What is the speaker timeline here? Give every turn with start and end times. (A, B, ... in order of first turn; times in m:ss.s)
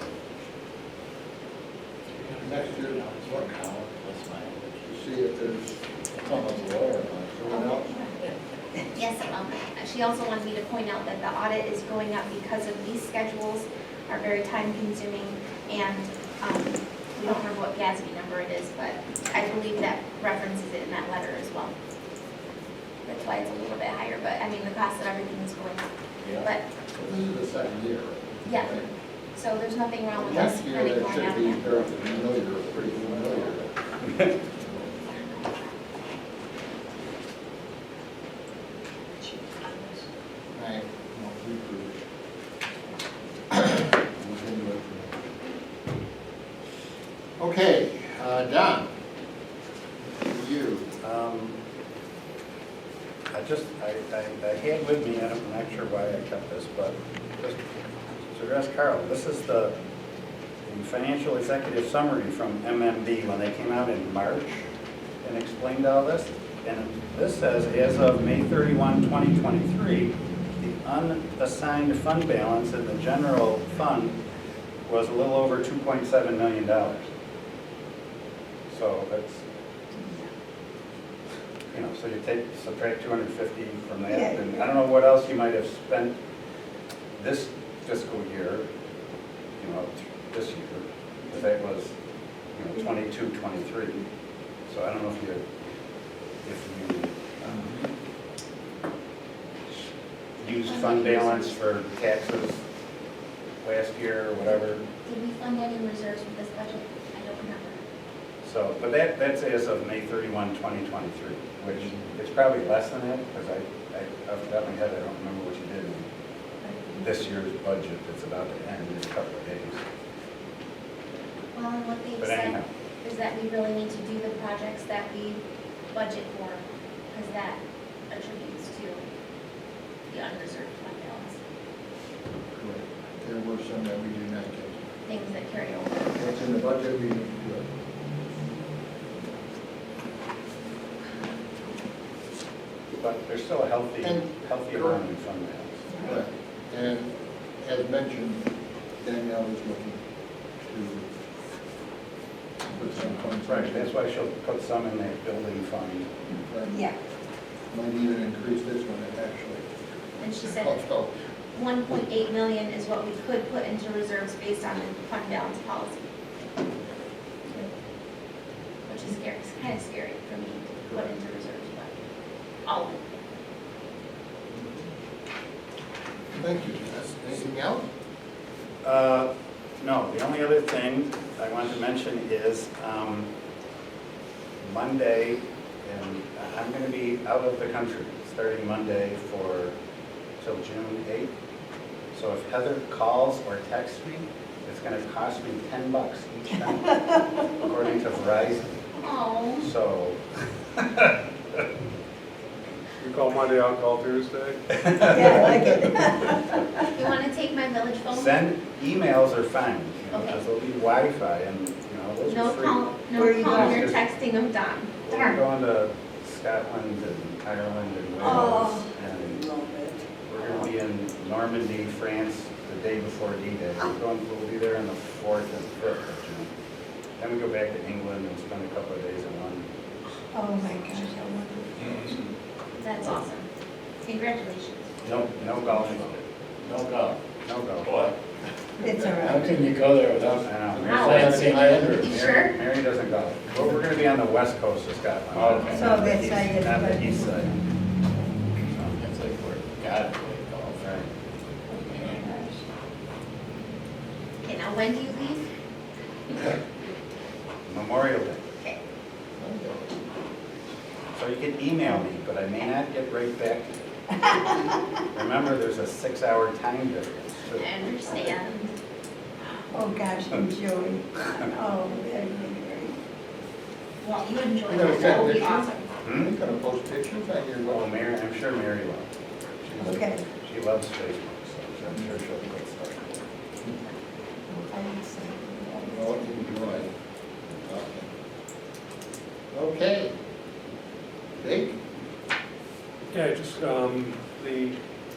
0:02.1-0:04.8 A
0:02.4-0:03.5 B
0:04.8-0:07.9 B
0:06.1-0:06.9 A
0:07.5-0:08.2 C
0:08.9-0:21.7 C
0:23.0-0:25.9 C
0:26.2-0:26.5 A
0:26.4-0:26.6 C
0:26.9-0:28.9 B
0:28.4-0:31.9 C
0:30.1-0:33.7 B
0:34.5-0:35.0 B
0:39.2-0:40.0 D
0:40.5-0:42.0 B
0:43.5-0:45.3 B
0:47.4-0:48.9 B
0:50.2-0:50.9 B
0:51.0-0:51.6 E
0:53.3-0:57.6 E
0:58.3-0:59.7 E
1:00.7-1:04.6 E
1:05.2-1:14.2 E
1:14.9-1:17.1 E
1:18.7-1:19.4 E
1:20.0-1:20.2 D
1:21.7-1:26.2 E
1:24.1-1:24.6 D
1:27.2-1:28.7 E
1:29.6-1:31.9 E
1:32.5-1:34.0 E
1:34.7-1:35.4 E
1:36.4-1:37.8 E
1:40.4-1:42.6 E
1:40.5-1:41.6 C
1:43.6-1:44.8 E
1:45.0-1:47.8 C
1:48.4-1:56.1 E
1:56.6-1:57.0 D
1:57.0-1:59.8 E
2:01.5-2:09.0 C
2:02.2-2:02.7 E
2:10.1-2:11.4 C
2:12.5-2:14.9 B
2:15.0-2:16.4 C
2:16.1-2:17.7 B
2:23.0-2:26.1 E
2:24.0-2:25.0 B
2:26.0-2:28.4 B
2:29.0-2:30.0 B
2:30.6-2:31.1 B
2:32.7-2:33.9 B
2:33.3-2:36.1 E
2:36.4-2:36.8 B
2:36.7-2:37.0 D
2:37.7-2:39.7 B
2:40.2-2:40.8 C
2:40.2-2:41.1 B
2:41.5-2:46.0 C
2:48.9-2:51.9 C
2:52.6-2:53.1 C
2:54.5-2:54.9 B
2:56.3-2:57.9 B
2:58.8-3:03.3 E
3:04.6-3:09.8 E
3:10.4-3:11.3 E
3:12.1-3:18.8 E
3:19.0-3:19.7 C
3:19.6-3:20.2 E
3:20.7-3:21.1 E
3:23.0-3:24.6 F
3:24.7-3:25.8 E
3:25.0-3:26.8 D
3:26.9-3:28.3 C
3:28.1-3:32.8 E
3:30.1-3:30.4 C
3:32.2-3:35.4 C
3:33.1-3:33.9 D
3:33.5-3:34.0 E
3:35.0-3:39.4 E
3:38.2-3:40.0 D
3:40.2-3:46.5 E
3:47.2-3:49.7 E
3:50.3-3:52.3 D
3:52.8-3:53.5 C
3:54.0-3:54.9 C
3:55.0-3:57.2 A
3:55.0-3:56.2 E
3:57.4-3:58.0 E
3:57.8-3:58.1 A
3:58.8-3:59.6 D
3:58.8-4:02.2 A
4:00.4-4:07.6 E
4:00.8-4:02.6 C
4:05.3-4:05.9 A
4:05.7-4:07.5 D
4:08.2-4:08.5 D
4:08.7-4:09.0 E
4:09.0-4:11.0 A
4:10.8-4:11.1 E
4:11.7-4:12.6 D
4:11.9-4:12.2 A
4:14.4-4:15.4 C
4:17.7-4:18.4 E
4:19.4-4:19.9 B
4:21.2-4:23.7 E
4:25.1-4:27.6 E
4:27.6-4:28.8 C
4:29.7-4:33.0 D
4:34.0-4:35.9 C
4:34.7-4:37.9 B
4:36.0-4:36.4 E
4:37.7-4:39.1 E
4:39.6-4:43.1 E
4:39.8-4:40.2 D
4:41.8-4:42.4 B
4:44.7-4:46.3 D
4:45.8-4:46.9 B
4:47.5-4:48.1 B
4:49.5-4:50.1 B
4:51.4-4:51.8 B
4:53.1-4:54.8 F